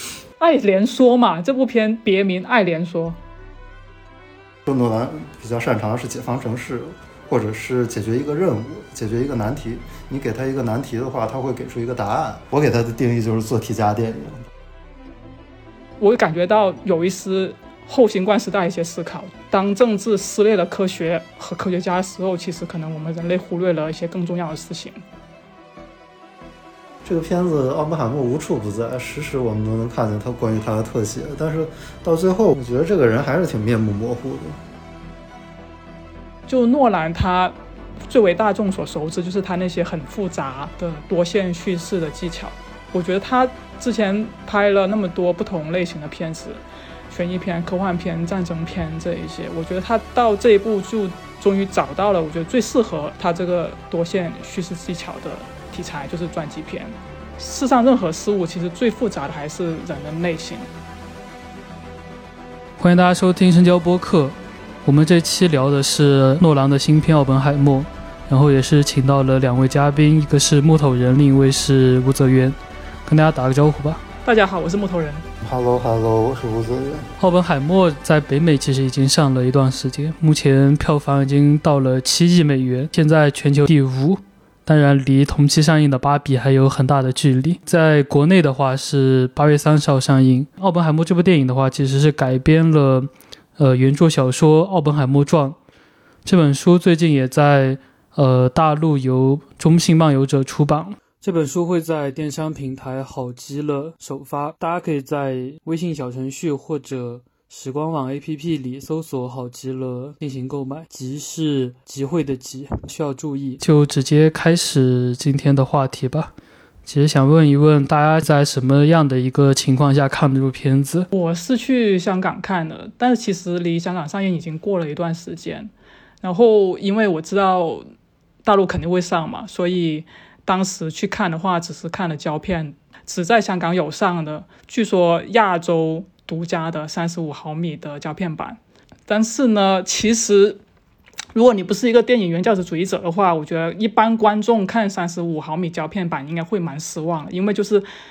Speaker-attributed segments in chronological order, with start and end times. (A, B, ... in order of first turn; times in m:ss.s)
0:00.4-0:03.2 A
0:04.6-0:14.5 B
0:16.0-0:25.0 A
0:27.0-0:34.6 B
0:36.5-0:37.5 A
0:38.1-1:00.7 A
1:02.8-1:14.0 C
1:14.2-1:15.2 A
1:15.4-1:17.1 B
1:17.2-1:35.6 C
1:36.2-1:56.3 C
1:56.8-2:01.1 C
2:01.1-2:05.7 A
2:06.2-2:07.8 A
2:08.4-2:20.6 A
2:21.3-2:27.8 A